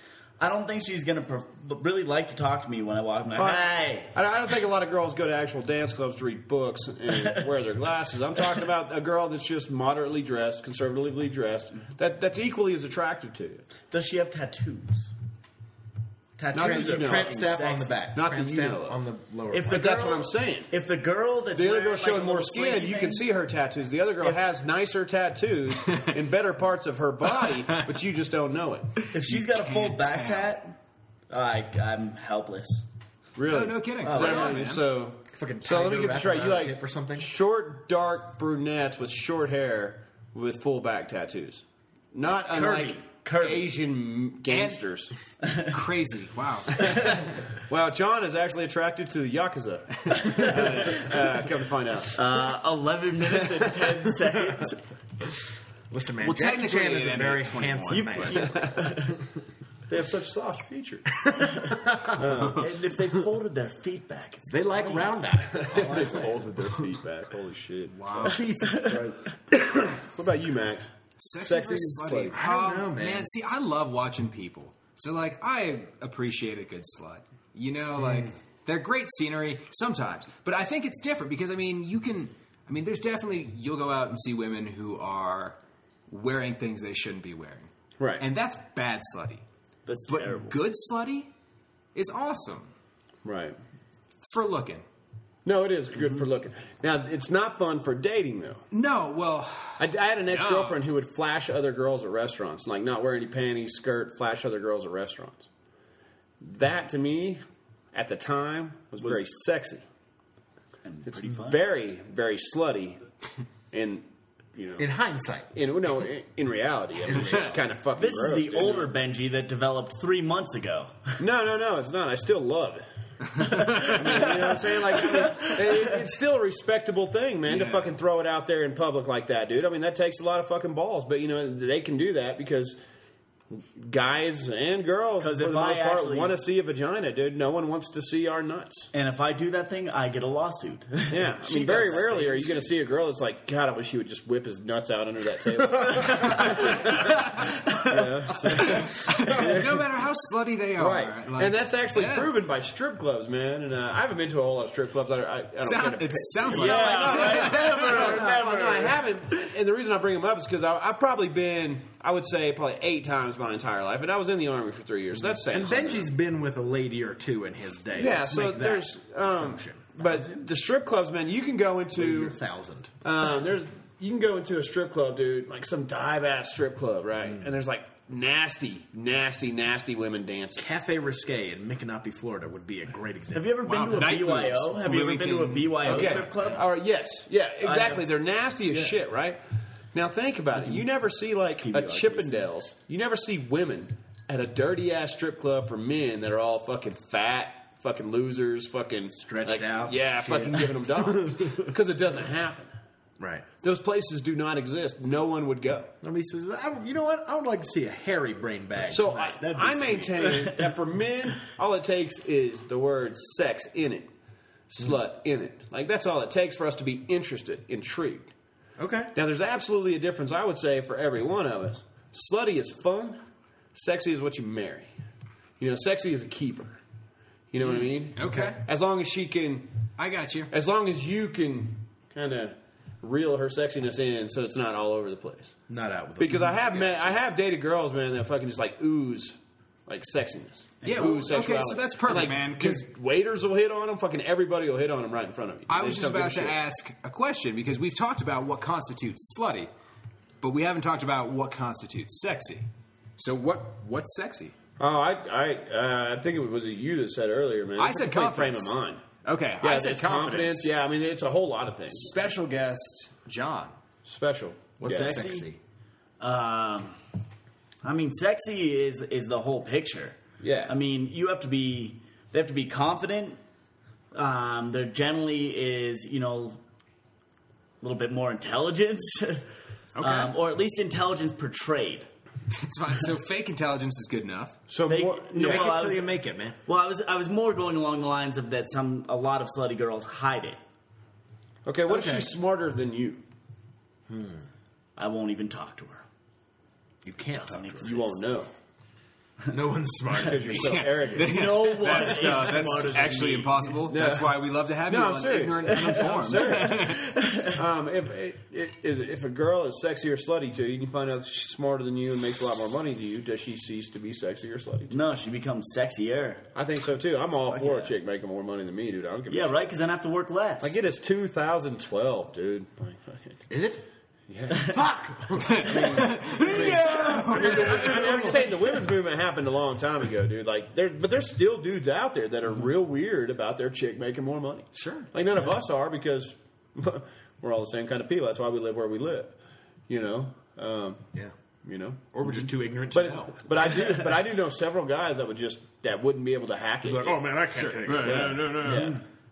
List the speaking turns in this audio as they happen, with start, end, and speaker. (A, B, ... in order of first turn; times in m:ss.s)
0:00.4-0:04.1 A
0:03.3-0:13.6 B
0:13.9-0:15.1 A
0:16.4-0:18.0 A
0:16.5-0:17.4 B
0:16.5-0:20.2 C
0:18.1-0:19.0 B
0:19.5-0:23.2 A
0:19.6-0:20.7 B
0:21.5-0:28.9 B
0:25.8-0:26.2 D
0:27.4-0:27.8 D
0:29.0-0:30.6 D
0:29.1-0:30.8 A
0:31.3-0:32.8 A
0:33.4-0:45.1 B
0:33.5-0:34.8 D
0:34.0-0:34.7 A
0:35.3-0:37.3 C
0:42.5-0:43.7 A
0:44.5-0:44.8 D
0:45.5-0:45.7 A
0:45.6-0:46.8 D
0:46.8-0:52.2 B
0:52.1-0:54.8 A
0:53.3-0:54.0 B
0:55.9-0:58.5 C
0:56.2-0:58.4 D
0:57.9-0:59.2 A
0:58.4-0:58.9 B
0:59.9-1:01.2 B
1:01.2-1:02.2 C
1:02.1-1:02.8 B
1:02.4-1:05.2 A
1:04.5-1:06.5 C
1:05.5-1:08.4 B
1:07.9-1:08.4 D
1:08.2-1:09.8 C
1:08.6-1:09.0 A
1:09.9-1:12.4 B
1:11.2-1:29.4 D
1:12.3-1:13.3 C
1:28.0-1:28.2 B
1:29.8-1:30.5 A
1:30.1-1:31.3 D
1:31.9-1:32.7 D
1:33.2-1:33.6 B
1:34.2-1:34.8 D
1:35.4-1:38.7 B
1:38.7-1:40.8 D
1:39.8-1:45.5 B
1:46.4-1:47.4 B
1:47.9-1:49.8 B
1:50.8-1:51.6 A
1:51.0-1:53.0 B
1:53.7-1:54.9 B
1:54.8-1:55.5 C
1:55.5-1:58.9 B
1:57.0-1:57.6 C
1:57.9-2:01.1 A
2:01.2-2:02.8 B
2:03.4-2:05.9 A
2:03.4-2:12.8 B
2:07.5-2:07.9 D
2:13.5-2:18.9 B
2:15.2-2:16.3 A
2:18.9-2:22.7 A
2:21.1-2:29.8 B
2:26.1-2:26.8 A
2:27.7-2:28.0 A
2:28.6-2:32.3 D
2:30.8-2:46.1 B
2:35.6-2:38.0 D
2:36.5-2:39.0 A
2:37.9-2:38.5 C
2:45.4-2:50.3 C
2:47.9-2:52.3 B
2:52.0-2:52.9 C
2:53.0-3:00.6 B
3:00.6-3:03.7 C
3:03.3-3:06.6 A
3:03.6-3:06.3 D
3:05.8-3:09.4 B
3:07.6-3:08.1 A
3:09.9-3:22.7 B
3:11.6-3:12.4 A
3:19.1-3:21.5 C
3:23.2-3:23.4 C
3:23.6-3:25.9 B
3:26.0-3:30.5 C
3:28.8-3:34.1 B
3:30.3-3:30.6 A
3:34.7-3:38.3 B
3:38.8-3:39.1 C
3:39.1-3:43.2 B
3:43.7-3:44.9 B
3:45.6-3:46.8 B
3:47.5-3:49.7 B
3:48.1-3:48.6 D
3:50.0-3:50.5 D
3:50.5-3:55.6 B
3:55.7-3:57.2 C
3:56.2-3:59.4 B
3:59.9-4:06.6 B
4:00.8-4:01.2 A
4:00.8-4:02.8 D
4:05.7-4:09.7 D
4:10.4-4:14.5 D
4:14.8-4:19.0 B
4:17.8-4:18.7 D
4:19.2-4:20.7 D
4:19.6-4:22.1 B
4:21.9-4:23.8 D
4:24.0-4:25.2 B
4:24.8-4:25.6 C
4:24.8-4:25.5 A
4:26.2-4:27.0 A
4:27.8-4:33.4 A
4:30.4-4:30.8 B
4:34.1-4:36.6 A
4:37.8-4:39.4 A
4:39.9-4:40.4 D
4:40.0-4:42.1 A
4:42.5-4:44.6 D
4:44.7-4:45.7 B
4:44.8-4:50.6 A
4:45.3-4:46.6 C
4:51.6-4:53.2 B
4:51.9-4:52.3 C
4:54.1-4:54.4 C
4:55.0-4:56.0 A
4:57.0-4:57.9 C
4:57.4-4:58.3 A
4:57.8-4:58.5 B
4:59.5-5:00.8 C
5:00.1-5:02.4 B
5:00.5-5:07.0 D
5:01.1-5:03.8 A
5:03.9-5:15.0 B
5:05.7-5:07.6 A
5:14.9-5:16.4 A
5:16.5-5:19.6 B
5:17.5-5:17.9 A
5:19.3-5:20.8 A
5:20.6-5:23.4 B
5:23.5-5:23.8 C
5:24.3-5:24.8 B
5:24.5-5:28.7 C
5:25.4-5:28.3 D
5:25.6-5:39.3 B
5:34.8-5:35.0 D
5:39.9-5:41.0 B
5:41.6-5:42.3 B
5:42.1-5:43.6 C
5:42.9-5:49.0 B
5:46.8-5:48.5 C
5:47.6-5:49.0 D
5:48.6-5:49.0 A